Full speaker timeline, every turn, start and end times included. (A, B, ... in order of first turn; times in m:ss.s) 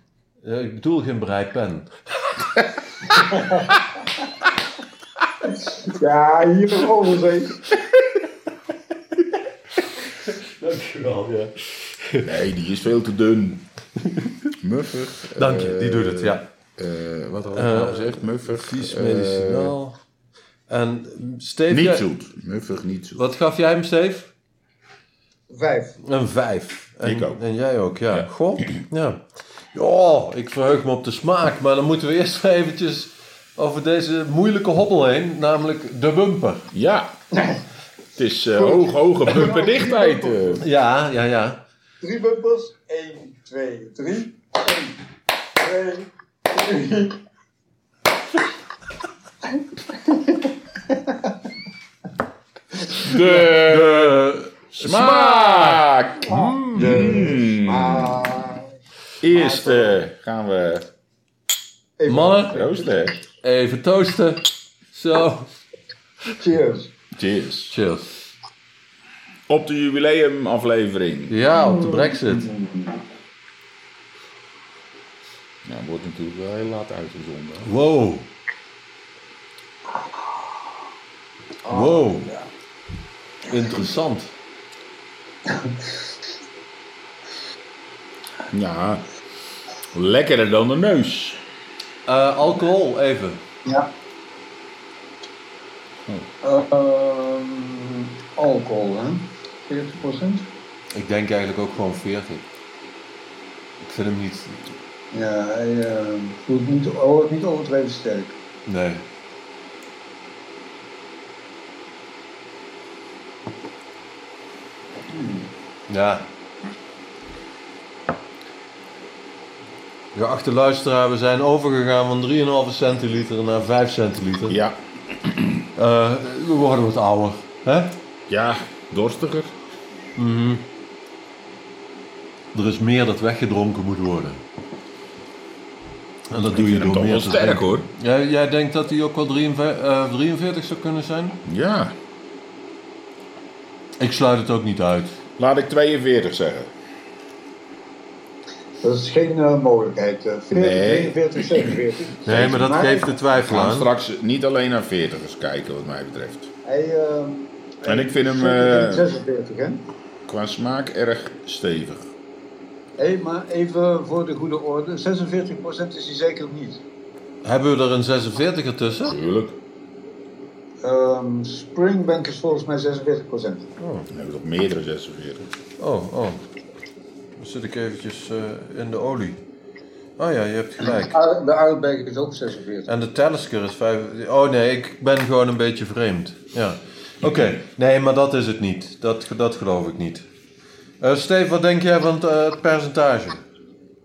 0:00.4-0:02.4 A
0:03.1-0:03.8 B
0:05.4-0:07.6 B
0:10.0-0:12.3 A
0:12.2-0:13.6 C
0:14.6-0:19.7 C
0:15.4-0:16.4 A
0:17.5-0:20.0 A
0:20.7-0:22.0 A
0:21.7-0:23.2 C
0:23.2-0:24.3 A
0:25.5-0:26.0 B
0:26.0-0:36.7 A
0:27.0-0:27.4 C
0:36.7-0:37.1 C
0:37.3-0:37.6 B
0:38.2-0:40.6 C
0:38.5-0:40.6 B
0:40.6-0:41.6 A
0:42.0-0:45.0 B
0:45.5-0:47.2 B
0:49.4-0:51.4 B
0:52.9-0:54.2 C
0:53.1-0:57.1 A
0:54.7-0:58.4 C
0:56.3-0:58.7 B
0:59.2-1:00.9 C
0:59.3-1:00.0 B
1:02.0-1:02.9 B
1:02.1-1:02.6 A
1:02.5-1:03.2 C
1:03.4-1:05.5 A
1:06.3-1:06.9 B
1:07.2-1:07.7 C
1:07.7-1:08.1 A
1:09.5-1:11.4 C
1:11.3-1:12.5 A
1:11.5-1:13.0 B
1:15.6-1:17.7 C
1:17.6-1:18.3 A
1:21.6-1:22.5 B
1:21.7-1:22.3 A
1:23.5-1:24.3 A
1:25.4-1:26.0 B
1:28.5-1:29.0 C
1:29.9-1:31.4 C
1:32.0-1:33.4 A
1:36.4-1:40.5 B
1:40.9-1:42.4 A
1:43.8-1:44.7 A
1:45.1-1:48.4 B
1:48.6-1:49.0 A
1:55.1-1:55.5 B
1:55.9-1:56.3 A
2:00.1-2:04.6 A
2:04.5-2:05.6 C
2:05.8-2:08.0 A
2:08.3-2:09.5 C
2:10.2-2:10.6 A
2:12.5-2:14.4 A
2:16.3-2:21.4 A
2:16.5-2:17.9 C
2:21.4-2:21.9 C
2:24.0-2:25.2 A
2:25.4-2:26.7 C
2:28.8-2:33.1 B
2:30.5-2:31.2 C
2:32.2-2:33.9 A
2:33.3-2:36.5 C
2:36.6-2:39.8 B
2:37.8-2:39.1 C
2:40.3-2:42.1 C
2:43.0-2:46.8 B
2:47.4-2:49.2 A
2:49.1-2:49.6 C
2:50.8-2:53.7 B
2:53.8-2:54.1 A
2:54.1-2:55.5 C
2:55.8-2:56.4 A
2:57.4-2:59.4 A
3:00.2-3:01.2 A
3:00.8-3:02.9 B
3:02.9-3:10.2 A
3:11.0-3:13.4 A